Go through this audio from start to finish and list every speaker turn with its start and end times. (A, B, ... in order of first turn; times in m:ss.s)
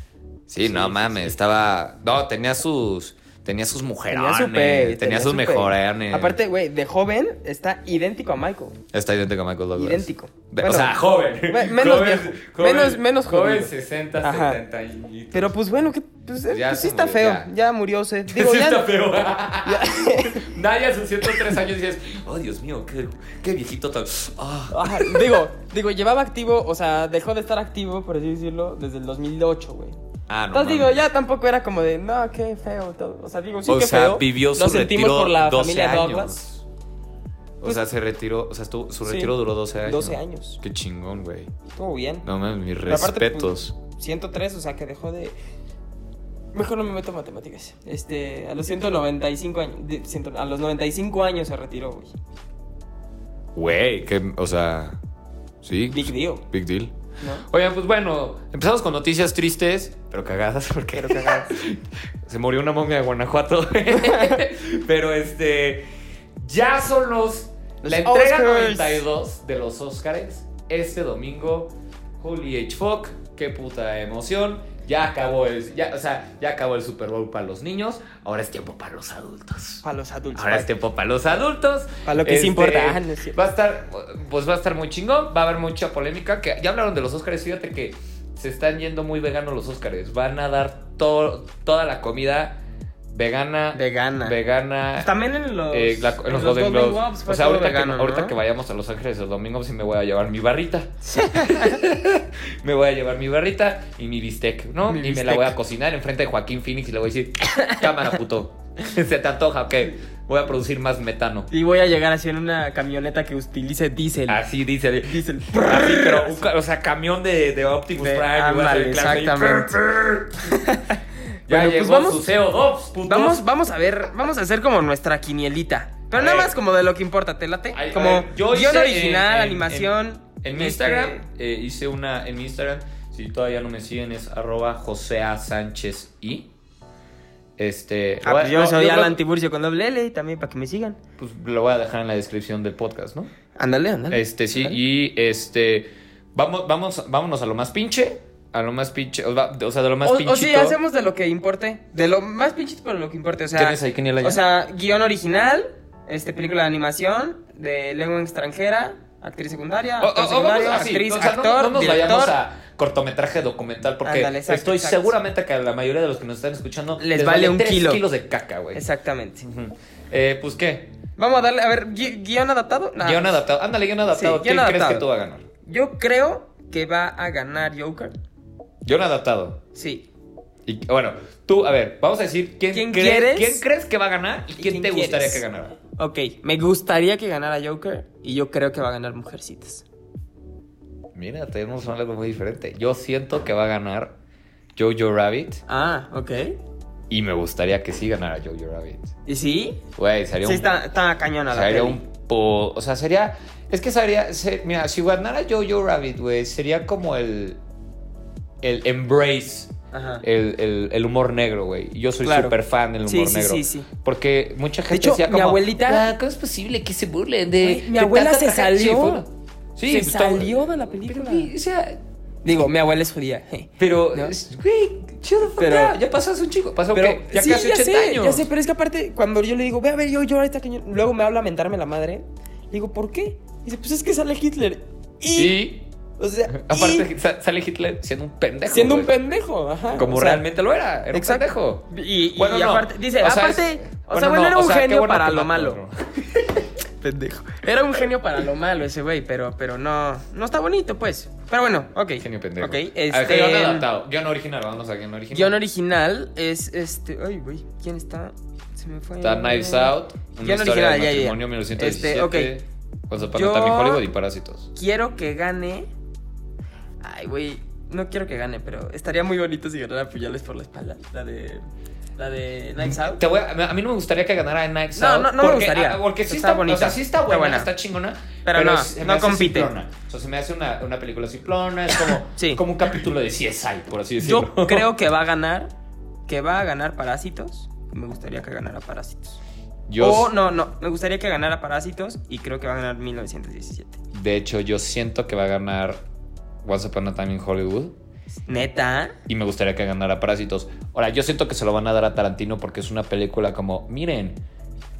0:00.5-0:06.4 A
0:00.6-0:01.4 B
0:04.1-0:08.8 B
0:08.9-0:15.5 A
0:09.8-0:13.7 B
0:14.2-0:14.6 B
0:15.3-0:18.9 B
0:16.5-0:17.5 A
0:18.3-0:25.4 A
0:19.6-0:20.5 B
0:24.7-0:30.0 B
0:30.3-0:31.0 A
0:30.5-0:36.4 B
0:33.7-0:36.6 A
0:37.6-0:41.5 A
0:39.0-0:40.6 B
0:41.8-0:42.3 B
0:42.2-0:43.8 A
0:42.9-0:45.4 B
0:46.5-0:52.2 B
0:53.6-0:55.0 A
0:55.6-1:05.8 A
0:55.9-0:56.4 B
1:00.9-1:01.5 B
1:04.0-1:04.4 B
1:06.4-1:35.1 A
1:07.8-1:09.0 B
1:19.8-1:20.7 B
1:22.0-1:23.4 B
1:33.7-1:34.4 B
1:35.0-1:38.4 B
1:35.7-1:51.5 A
1:41.0-1:41.8 B
1:44.9-1:45.6 B
1:47.5-1:47.9 B
1:51.5-1:54.4 B
1:54.3-2:00.7 A
1:55.0-1:56.5 B
1:58.0-1:59.8 B
2:00.5-2:02.2 B
2:01.5-2:03.4 A
2:03.1-2:11.3 B
2:06.2-2:06.6 A
2:07.7-2:16.5 A
2:17.6-2:19.2 A
2:18.2-2:21.0 B
2:21.2-2:23.3 A
2:23.6-2:24.8 B
2:24.1-2:30.8 A
2:30.0-2:42.4 B
2:33.6-2:34.4 A
2:40.0-2:48.8 A
2:44.0-2:45.1 B
2:47.0-2:48.0 B
2:48.7-2:49.4 B
2:49.4-2:51.0 A
2:51.2-2:53.4 B
2:53.0-2:55.4 A
2:54.1-2:55.1 B
2:55.6-2:58.1 B
2:58.8-2:59.6 A
2:59.7-3:00.1 B
3:00.7-3:05.8 A
3:02.7-3:03.6 B
3:04.6-3:05.4 B
3:06.0-3:09.8 B
3:11.2-3:14.2 A
3:14.8-3:15.6 A
3:15.7-3:16.6 B
3:17.1-3:19.1 A
3:19.3-3:19.8 B
3:20.0-3:20.8 A
3:20.4-3:22.0 B
3:21.5-3:27.6 A
3:28.6-3:42.0 A
3:29.9-3:30.2 B
3:32.2-3:33.9 B
3:34.9-3:36.1 B
3:37.6-3:39.2 B
3:39.9-3:41.5 B
3:42.4-3:44.4 B
3:43.8-3:48.5 A
3:45.6-3:46.0 B
3:46.9-3:55.6 B
3:55.4-3:55.9 A
3:56.2-3:57.1 B
3:56.5-3:59.1 A
3:58.7-4:00.4 B
3:59.9-4:06.2 A
4:01.1-4:05.8 B
4:07.0-4:13.9 B
4:12.2-4:15.6 A
4:15.3-4:22.5 B
4:19.2-4:24.7 A
4:23.3-4:24.0 B
4:24.8-4:25.9 B
4:27.0-4:31.6 B
4:32.2-4:33.2 B
4:32.8-4:44.9 A
4:35.0-4:37.7 B
4:38.4-4:39.7 B
4:42.0-4:42.6 B
4:44.2-4:45.7 B
4:46.3-4:49.4 B
4:49.9-4:50.3 A
4:50.0-4:54.0 B
4:54.1-4:56.0 A
4:56.6-4:58.0 A
4:58.5-4:59.2 B
4:59.3-5:04.4 A